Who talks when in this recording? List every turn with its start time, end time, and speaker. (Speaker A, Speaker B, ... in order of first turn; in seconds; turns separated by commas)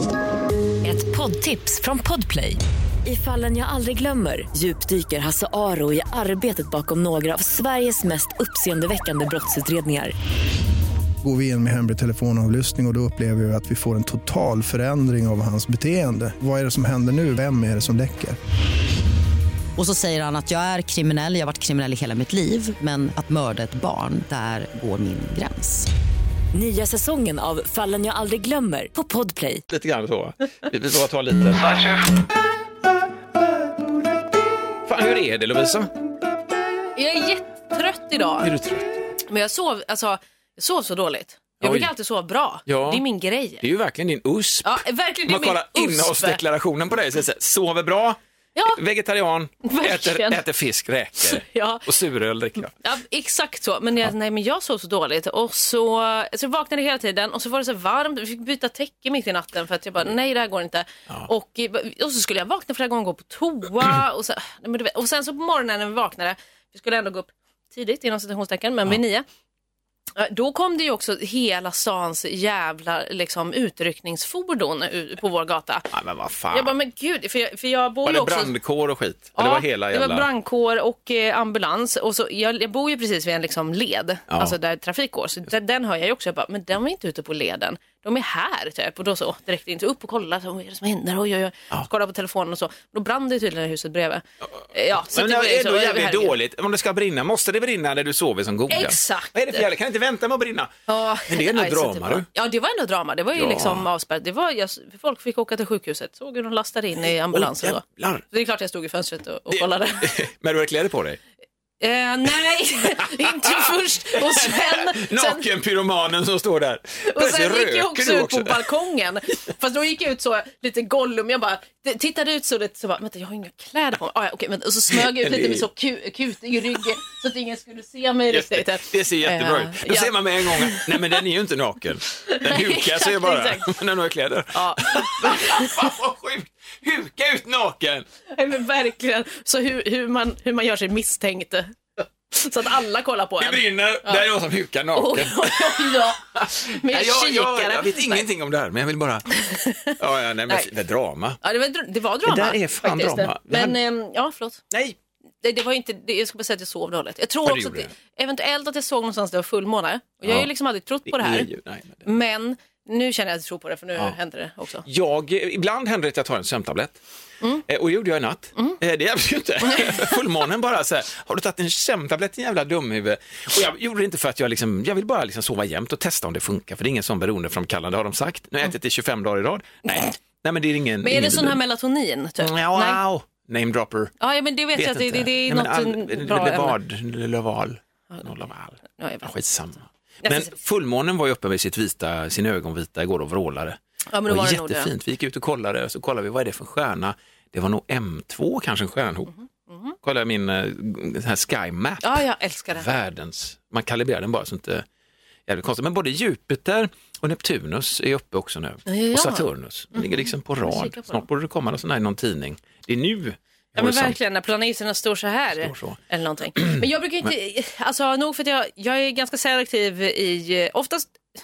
Speaker A: 0.8-10.1, Speaker B: 11.2-18.4, Speaker C: 19.8-25.9, Speaker A: 26.5-29.6, Speaker D: 29.7-32.0, Speaker D: 34.9-35.9, Speaker E: 37.0-38.5, Speaker D: 38.4-39.0, Speaker E: 39.3-43.6, Speaker D: 41.6-41.9, Speaker D: 42.7-43.0, Speaker D: 43.6-48.2, Speaker E: 44.6-46.4, Speaker D: 48.7-52.7, Speaker E: 49.6-50.4, Speaker E: 51.3-51.9, Speaker E: 52.8-69.2, Speaker E: 70.2-75.9, Speaker D: 75.9-76.7, Speaker E: 76.5-78.5, Speaker D: 78.0-80.3, Speaker E: 79.4-96.3, Speaker D: 84.3-84.5, Speaker D: 95.1-100.7, Speaker E: 98.7-99.7, Speaker E: 100.9-110.1, Speaker D: 101.3-102.3, Speaker D: 103.3-103.9, Speaker D: 107.3-108.2, Speaker D: 109.5-111.2, Speaker E: 111.8-115.5, Speaker D: 113.0-118.7, Speaker E: 117.1-131.2, Speaker D: 124.9-125.7, Speaker D: 128.3-138.1, Speaker E: 132.2-133.7, Speaker E: 134.5-135.9, Speaker E: 138.3-141.7, Speaker E: 142.3-144.2, Speaker D: 143.4-149.3, Speaker E: 144.9-148.3, Speaker E: 149.3-149.9, Speaker D: 150.0-151.4, Speaker E: 151.4-154.6, Speaker D: 152.2-153.8, Speaker D: 154.7-154.9, Speaker E: 155.4-161.5, Speaker D: 157.4-157.9, Speaker D: 161.1-162.0, Speaker E: 162.0-164.8, Speaker D: 164.8-167.0, Speaker D: 167.7-181.6, Speaker E: 169.7-170.1, Speaker E: 181.0-183.0, Speaker D: 182.4-184.1, Speaker E: 184.2-186.8, Speaker D: 184.7-199.3, Speaker E: 188.9-189.3, Speaker E: 190.2-190.5, Speaker E: 194.1-194.9, Speaker E: 199.4-199.9, Speaker D: 200.0-202.2, Speaker E: 202.0-202.9, Speaker D: 202.8-204.8, Speaker D: 205.5-214.2, Speaker E: 208.9-210.1, Speaker E: 210.6-211.2, Speaker E: 213.8-221.2, Speaker D: 215.6-216.0, Speaker D: 216.6-216.8